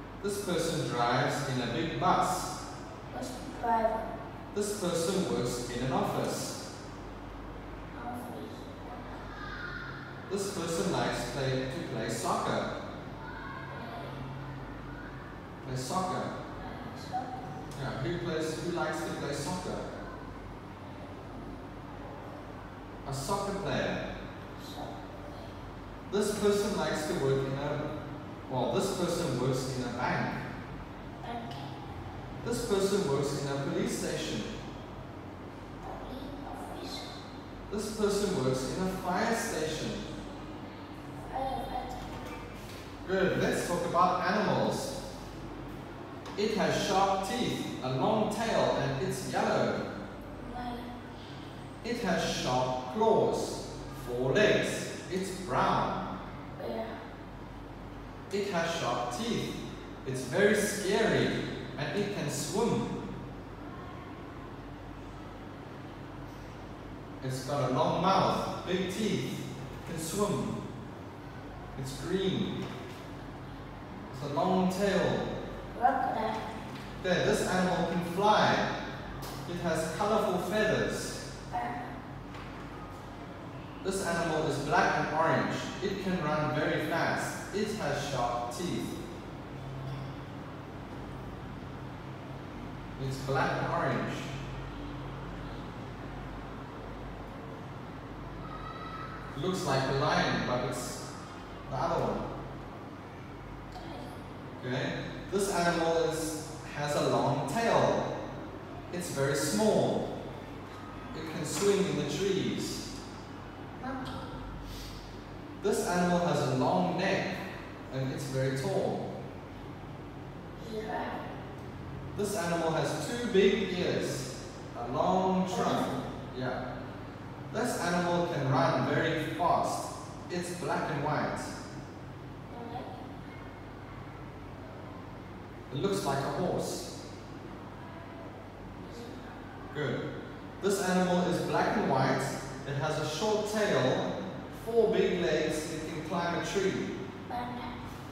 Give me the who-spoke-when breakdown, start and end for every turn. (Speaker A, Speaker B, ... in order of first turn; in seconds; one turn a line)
Speaker A: 0.2-2.5
Speaker B: 3.1-4.1
Speaker A: 4.5-6.6
Speaker B: 7.9-9.2
Speaker A: 10.3-12.7
Speaker B: 13.7-14.2
Speaker A: 15.6-16.3
Speaker B: 16.5-17.3
Speaker A: 17.7-19.9
Speaker A: 23.0-24.0
Speaker B: 24.6-25.5
Speaker A: 26.1-27.9
Speaker A: 28.5-30.4
Speaker B: 31.2-31.7
Speaker A: 32.4-34.5
Speaker B: 35.8-37.1
Speaker A: 37.7-40.1
Speaker B: 41.1-42.2
Speaker A: 43.0-44.9
Speaker A: 46.4-49.8
Speaker B: 50.4-50.9
Speaker A: 51.8-56.0
Speaker B: 56.5-57.0
Speaker A: 58.3-62.9
Speaker A: 67.2-70.6
Speaker A: 71.7-72.6
Speaker A: 74.1-75.3
Speaker B: 75.7-76.5
Speaker A: 77.0-78.7
Speaker A: 79.5-81.2
Speaker B: 81.5-82.0
Speaker A: 83.8-88.9
Speaker A: 93.0-94.3
Speaker A: 99.3-101.0
Speaker A: 101.7-102.2
Speaker B: 103.7-104.0
Speaker A: 104.6-108.1
Speaker A: 108.9-110.1
Speaker A: 111.1-112.8
Speaker B: 113.8-114.3
Speaker A: 115.6-119.1
Speaker B: 120.6-121.2
Speaker A: 122.1-126.6
Speaker B: 125.5-126.0
Speaker A: 127.5-131.5
Speaker B: 132.5-133.0
Speaker A: 135.7-136.9
Speaker B: 138.8-139.3
Speaker A: 139.7-140.0
Speaker A: 140.6-146.9
Speaker B: 147.3-147.8